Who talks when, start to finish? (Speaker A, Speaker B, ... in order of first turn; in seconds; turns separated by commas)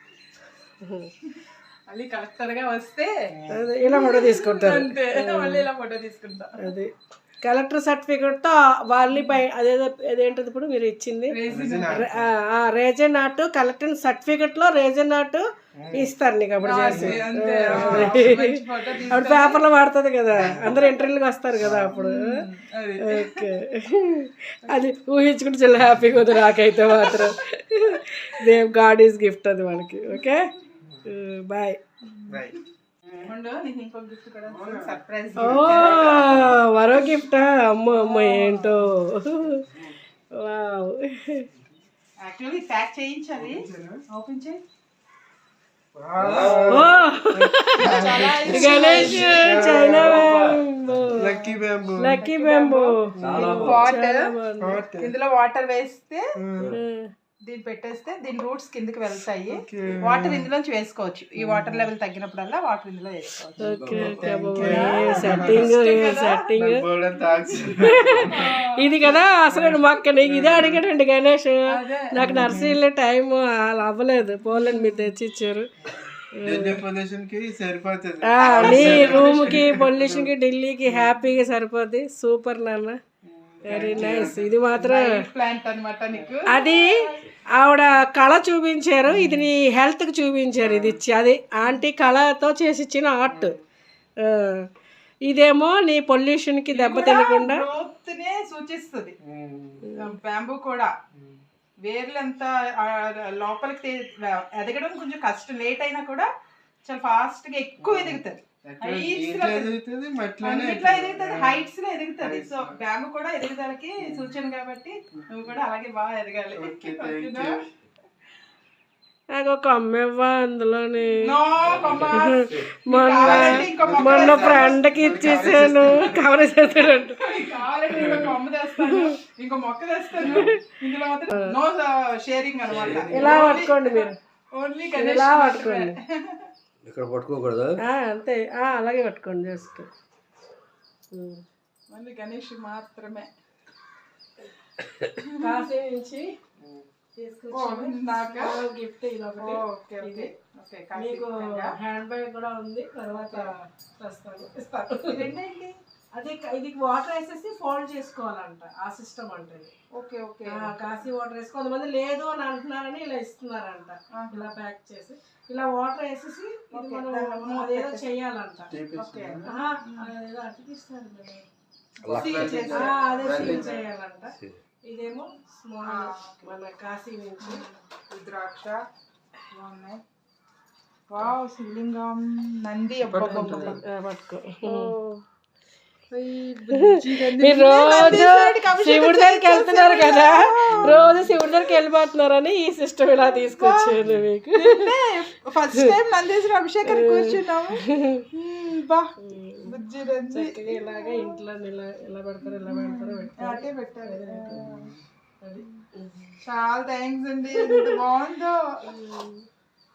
Speaker A: 0.8-1.1, Speaker B: 1.3-3.1, Speaker C: 3.3-3.7, Speaker A: 3.5-5.7, Speaker B: 3.9-6.5, Speaker A: 6.6-6.9, Speaker A: 7.4-22.2, Speaker B: 9.1-9.4, Speaker B: 11.3-12.1, Speaker C: 11.5-12.3, Speaker C: 15.7-16.1, Speaker B: 16.6-19.6, Speaker C: 16.7-18.2, Speaker C: 20.3-20.9, Speaker C: 21.5-22.0, Speaker B: 21.9-23.4, Speaker A: 23.0-30.5, Speaker B: 26.5-27.3, Speaker C: 30.8-31.1, Speaker A: 31.0-31.8, Speaker B: 32.1-32.6, Speaker C: 32.3-33.3, Speaker B: 33.2-36.4, Speaker C: 34.4-36.5, Speaker A: 35.4-39.6, Speaker B: 37.8-38.8, Speaker C: 39.6-40.0, Speaker A: 40.4-41.5, Speaker C: 41.5-41.8, Speaker B: 42.2-44.6, Speaker C: 43.4-44.0, Speaker C: 45.9-50.6, Speaker D: 46.2-47.0, Speaker A: 46.7-51.3, Speaker B: 47.8-49.8, Speaker D: 49.7-51.0, Speaker C: 51.1-52.2, Speaker B: 51.1-54.2, Speaker A: 52.0-54.8, Speaker C: 53.2-53.8, Speaker D: 53.2-53.9, Speaker C: 54.6-55.1, Speaker B: 55.0-56.2, Speaker C: 56.4-56.8, Speaker A: 56.7-57.1, Speaker B: 57.5-66.4, Speaker C: 59.5-60.5, Speaker C: 61.4-61.9, Speaker D: 63.6-64.3, Speaker A: 63.6-66.8, Speaker C: 63.9-65.7, Speaker C: 66.5-68.5, Speaker A: 67.8-75.7, Speaker B: 68.3-69.1, Speaker C: 69.4-70.8, Speaker B: 71.7-72.5, Speaker C: 72.2-72.8, Speaker B: 74.5-75.0, Speaker C: 75.8-80.3, Speaker A: 76.4-76.8, Speaker A: 78.2-83.0, Speaker B: 78.4-79.8, Speaker C: 80.8-81.2, Speaker C: 83.2-84.6, Speaker D: 83.6-83.9, Speaker A: 83.7-85.0, Speaker B: 83.9-87.2, Speaker C: 86.1-86.4, Speaker A: 86.5-93.5, Speaker C: 89.0-89.5, Speaker C: 90.6-91.0, Speaker C: 93.2-93.6, Speaker A: 94.3-94.6, Speaker A: 95.2-97.7, Speaker B: 96.7-99.1, Speaker C: 99.2-99.8, Speaker A: 99.8-100.1, Speaker B: 100.0-100.9, Speaker C: 101.1-101.4, Speaker B: 101.8-106.3, Speaker B: 106.8-109.7, Speaker C: 107.8-111.7, Speaker B: 110.4-117.6, Speaker C: 112.2-112.8, Speaker C: 114.0-114.3, Speaker C: 115.1-115.6, Speaker C: 116.5-117.7, Speaker A: 119.3-121.2, Speaker B: 121.2-126.0, Speaker D: 121.6-122.7, Speaker A: 121.9-127.2, Speaker C: 123.2-126.1, Speaker B: 126.8-136.5, Speaker A: 127.9-129.1, Speaker A: 130.2-130.6, Speaker D: 132.7-133.6, Speaker C: 132.7-133.5, Speaker A: 133.1-134.1, Speaker A: 134.9-135.9, Speaker D: 136.8-137.8, Speaker A: 137.8-139.9, Speaker A: 141.1-141.4, Speaker B: 141.9-143.3, Speaker B: 145.3-145.6, Speaker A: 145.4-146.2, Speaker C: 146.6-146.9, Speaker A: 147.2-150.3, Speaker B: 147.5-148.5, Speaker B: 149.4-151.7, Speaker A: 150.9-155.2, Speaker B: 153.2-153.5, Speaker B: 155.1-155.8, Speaker A: 156.2-159.7, Speaker B: 159.9-161.1, Speaker A: 160.5-168.7, Speaker B: 164.2-164.5, Speaker B: 166.7-168.0, Speaker C: 168.7-169.5, Speaker B: 168.9-170.1, Speaker A: 169.4-171.4, Speaker B: 172.0-173.8, Speaker D: 172.0-172.7, Speaker C: 172.0-173.8, Speaker A: 172.7-174.3, Speaker A: 174.9-177.6, Speaker B: 175.8-176.4, Speaker B: 177.4-178.8, Speaker B: 179.5-180.0, Speaker B: 181.1-183.8, Speaker C: 183.0-183.8, Speaker A: 183.2-184.9, Speaker B: 184.6-185.2, Speaker B: 186.1-191.7, Speaker A: 186.8-194.8, Speaker C: 190.7-191.3, Speaker B: 193.1-193.9, Speaker B: 194.5-199.1, Speaker A: 196.9-198.2, Speaker A: 199.2-199.7, Speaker B: 199.6-201.4, Speaker A: 200.3-204.6, Speaker B: 202.4-204.9, Speaker C: 204.5-205.0, Speaker A: 205.4-206.4, Speaker B: 206.4-208.6, Speaker A: 207.6-208.0, Speaker A: 208.8-209.4